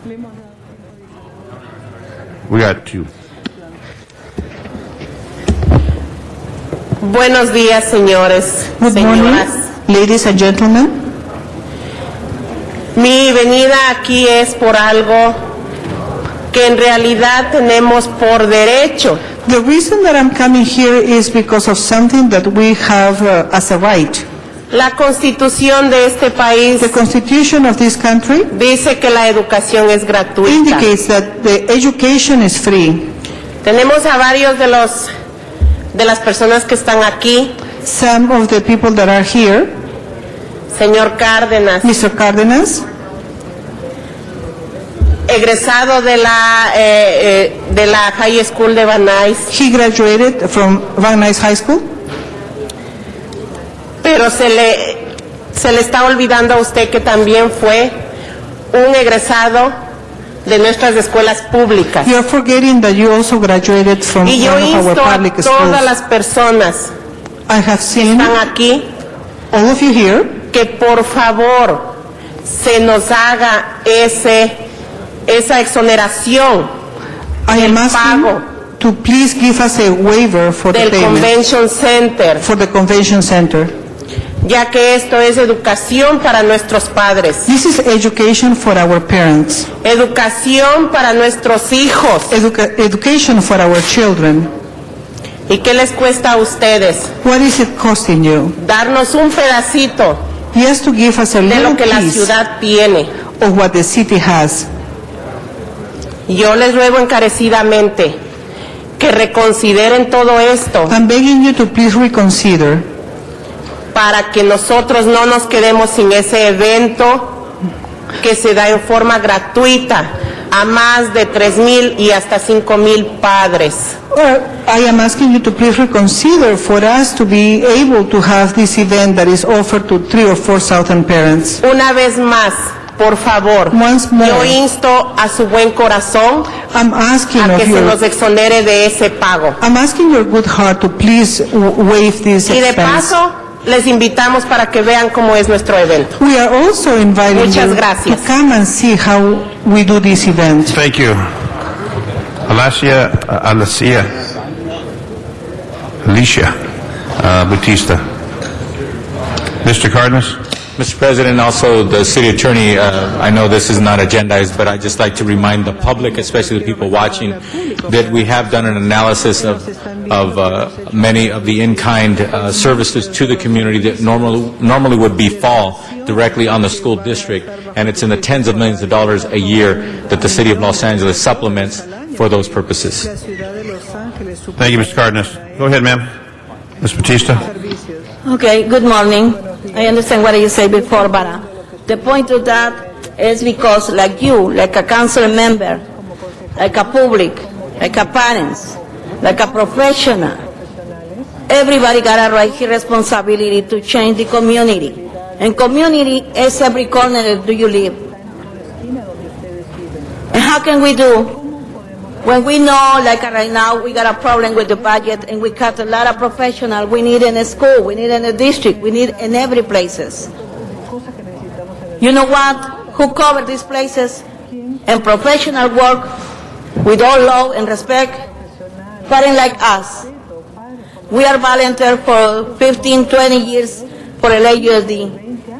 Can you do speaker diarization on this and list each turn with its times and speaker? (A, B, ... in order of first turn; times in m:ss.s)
0:02.5-0:03.1 A
0:07.0-0:09.6 B
0:08.8-0:10.9 C
0:12.9-0:15.4 B
0:16.5-0:19.2 B
0:19.4-0:24.2 C
0:24.7-0:26.9 B
0:26.8-0:28.5 C
0:28.5-0:30.9 B
0:30.4-0:33.1 C
0:33.6-0:35.1 B
0:35.9-0:37.6 B
0:37.8-0:39.7 C
0:40.7-0:41.9 B
0:41.8-0:42.8 C
0:45.3-0:49.5 B
0:49.5-0:51.8 C
0:54.0-0:57.9 B
0:58.7-0:59.7 B
1:00.4-1:02.1 B
1:02.0-1:05.9 C
1:04.2-1:06.9 B
1:07.5-1:08.4 C
1:08.1-1:08.9 B
1:09.5-1:10.4 C
1:10.5-1:11.9 B
1:12.4-1:14.6 B
1:15.3-1:16.7 B
1:17.5-1:21.3 C
1:17.5-1:18.4 B
1:20.7-1:22.4 B
1:22.4-1:23.7 C
1:24.4-1:27.5 B
1:27.4-1:29.7 C
1:29.8-1:32.3 B
1:32.3-1:34.5 C
1:35.5-1:37.1 B
1:37.2-1:38.6 C
1:38.6-1:40.2 B
1:40.5-1:42.3 C
1:41.5-1:43.1 B
1:43.4-1:44.7 C
1:46.3-1:48.2 B
1:49.0-1:50.9 B
1:50.9-1:52.8 C
1:53.9-1:57.4 B
1:58.2-2:03.9 B
2:04.1-2:11.6 C
2:11.6-2:16.6 B
2:13.7-2:14.6 C
2:16.6-2:18.0 C
2:17.4-2:19.6 B
2:19.6-2:23.1 C
2:22.5-2:26.1 B
2:26.2-2:30.8 C
2:27.3-2:28.2 B
2:30.7-2:31.2 A
2:32.4-2:34.1 A
2:36.0-2:36.5 A
2:37.2-2:38.0 A
2:39.6-2:40.4 A
2:40.8-3:03.1 D
2:45.9-2:48.4 C
2:49.5-2:51.3 C
2:52.4-2:54.4 C
2:55.5-2:56.5 C
3:04.1-3:04.6 C
3:04.6-3:06.0 A
3:06.8-3:07.4 A
3:08.2-3:15.8 E
3:16.6-3:20.4 E
3:21.5-3:28.1 E
3:30.3-3:31.4 E
3:32.2-3:40.3 E
3:42.0-3:44.2 E
3:44.8-3:46.1 E
3:46.8-3:48.2 E
3:49.1-3:50.1 E
3:51.1-3:55.2 E